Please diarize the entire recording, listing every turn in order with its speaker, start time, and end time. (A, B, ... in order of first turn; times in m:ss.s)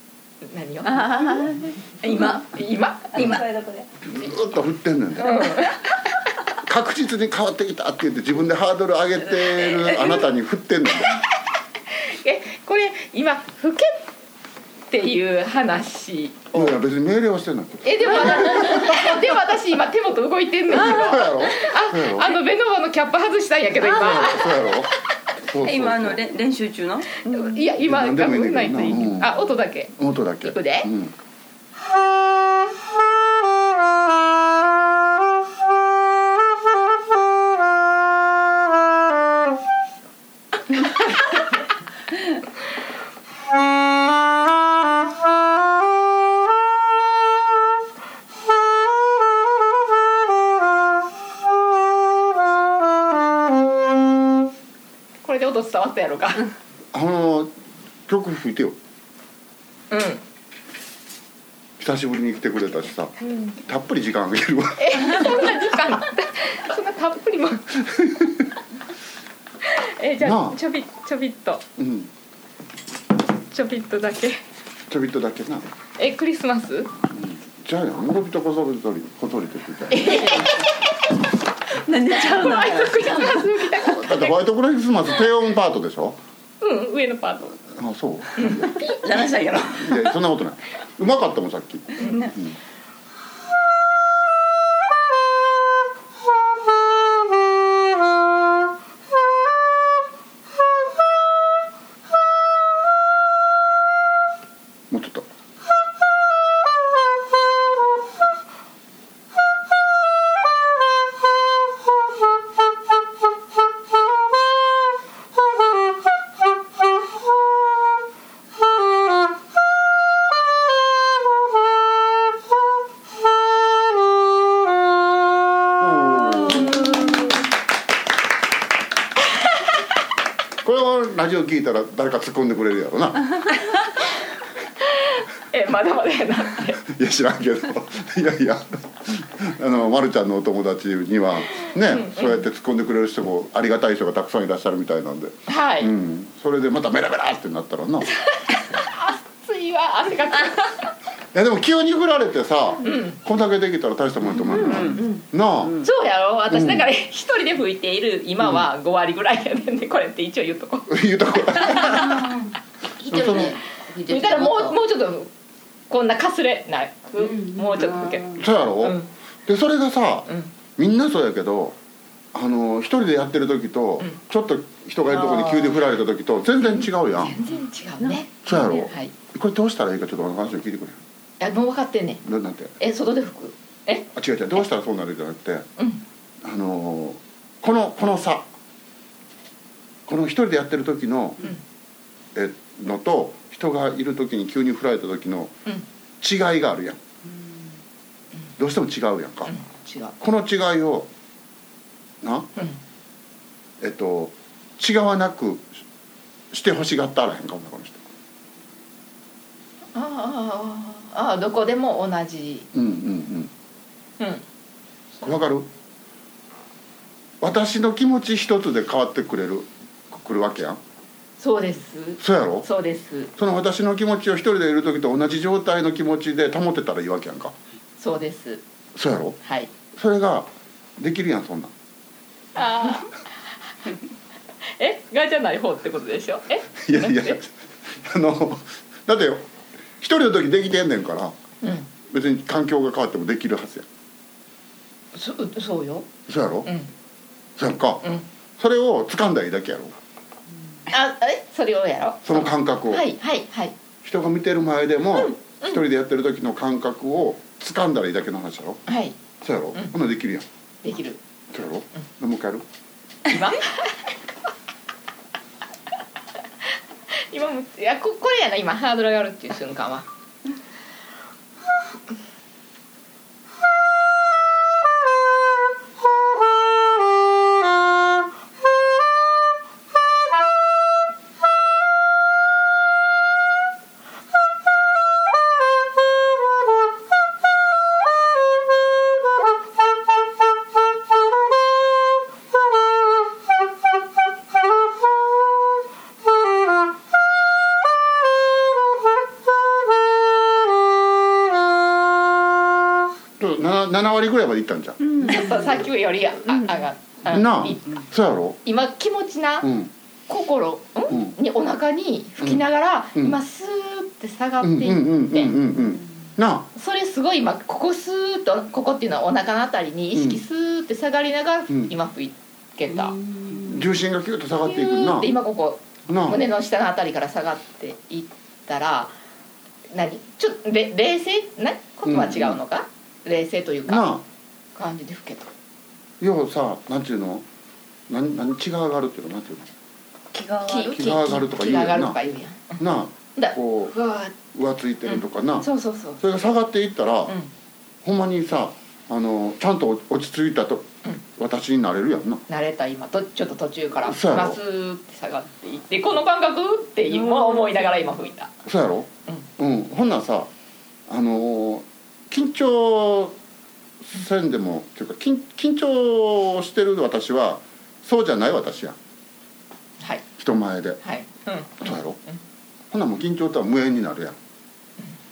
0:00.4-0:01.5 A
0:00.9-0:01.7 B
0:02.0-0:02.4 C
0:02.0-0:03.4 A
0:03.4-0:03.8 B
0:04.1-0:05.6 D
0:05.2-0:06.3 A
0:06.6-0:11.2 D
0:11.9-0:14.1 A
0:14.9-0:16.8 A
0:16.5-0:19.2 D
0:17.8-0:24.7 A
0:20.7-0:22.4 D
0:23.8-0:26.2 D
0:25.6-0:27.3 C
0:27.3-0:30.9 A
0:27.8-0:29.4 D
0:29.9-0:31.1 D
0:55.2-0:56.5 A
0:56.9-0:57.5 D
0:58.1-0:58.8 D
0:59.9-1:00.2 A
1:01.8-1:05.5 D
1:03.2-1:03.5 A
1:04.8-1:07.8 A
1:07.9-1:08.5 D
1:09.6-1:11.6 A
1:10.2-1:10.6 D
1:11.8-1:12.1 D
1:13.4-1:14.4 A
1:14.9-1:15.7 D
1:16.0-1:16.9 A
1:17.1-1:20.4 D
1:19.9-1:21.1 A
1:20.1-1:20.5 B
1:21.9-1:23.5 B
1:22.1-1:24.3 A
1:22.3-1:22.7 C
1:23.8-1:26.2 D
1:26.6-1:27.6 A
1:27.7-1:28.7 D
1:28.4-1:29.0 A
1:28.8-1:30.1 C
1:29.8-1:32.6 D
1:32.0-1:32.3 A
1:32.0-1:32.3 C
1:44.9-1:45.3 D
2:05.8-2:07.2 D
2:06.8-2:07.2 A
2:10.6-2:13.5 D
2:14.8-2:16.8 A
2:16.8-2:28.1 D
2:21.6-2:22.4 A
2:25.5-2:25.9 A
2:28.3-2:30.9 A
2:31.3-2:35.8 D
2:32.8-2:33.2 A
2:34.5-2:35.0 C
2:34.8-2:35.1 B
2:35.8-2:42.3 A
2:36.5-2:36.9 D
2:40.9-2:42.3 D
2:43.0-2:43.6 D
2:43.0-2:44.7 B
2:43.1-2:45.3 A
2:45.9-2:49.1 A
2:47.4-2:48.2 B
2:48.3-2:51.8 D
2:52.3-2:57.4 D
2:56.7-2:59.1 A
2:58.4-3:01.0 D
3:01.4-3:02.2 A
3:02.2-3:02.7 D
3:02.8-3:04.1 A
3:04.1-3:05.7 D
3:05.8-3:06.0 A
3:06.4-3:08.4 D
3:10.1-3:11.4 D
3:12.3-3:15.5 D
3:16.2-3:17.0 D
3:18.6-3:19.5 D
3:19.4-3:20.1 A
3:20.2-3:21.1 D
3:22.2-3:22.5 D
3:23.8-3:25.7 D
3:26.5-3:28.0 D
3:29.9-3:32.7 A
3:32.7-3:33.5 D
3:35.2-3:35.7 D
3:37.4-3:40.8 D
3:41.4-3:43.3 A
3:42.2-3:42.7 D
3:43.4-3:47.5 D
3:48.0-3:48.6 A
3:48.9-3:49.4 D
3:49.4-3:49.7 A
3:49.9-3:51.7 D
3:52.5-3:53.2 A
3:54.8-3:57.4 A
3:56.8-4:01.3 D
4:01.6-4:01.9 A
4:02.1-4:03.8 D
4:05.1-4:06.1 A
4:06.3-4:06.7 D
4:06.6-4:06.9 A
4:07.6-4:09.9 D
4:10.9-4:13.7 A
4:12.2-4:13.0 D
4:14.0-4:18.8 D
4:15.1-4:15.8 A
4:18.9-4:19.2 A
4:19.4-4:20.4 D
4:20.8-4:21.2 A
4:21.5-4:22.6 D
4:23.2-4:23.9 A
4:27.1-4:30.0 A
5:03.4-5:05.1 D
5:05.2-5:05.5 B
5:05.2-5:08.0 A
5:07.3-5:08.6 D
5:08.6-5:09.7 A
5:09.6-5:09.9 D
5:10.3-5:15.5 A
5:14.6-5:16.7 D
5:16.7-5:23.2 A
5:20.1-5:20.4 D
5:23.5-5:25.3 D
5:24.5-5:29.1 A
5:26.1-5:26.4 D
5:29.9-5:34.1 A
5:32.0-5:32.6 D
5:33.9-5:34.2 D
5:34.8-5:35.5 A
5:36.2-5:37.4 D
5:38.1-5:39.7 D
5:40.3-5:41.0 C
5:40.6-5:42.8 A
5:40.8-5:42.2 D
5:42.8-5:43.9 D
5:43.4-5:44.3 A
5:44.5-5:45.7 D
5:45.0-5:46.2 A
5:46.2-5:47.3 D
5:48.0-5:52.4 D
5:52.5-5:58.5 A
5:54.0-5:54.6 D
5:58.6-6:00.5 D
6:01.1-6:03.4 D
6:04.0-6:09.0 D
6:10.4-6:11.0 D
6:11.0-6:12.4 A
6:11.8-6:12.2 D
6:12.9-6:14.4 D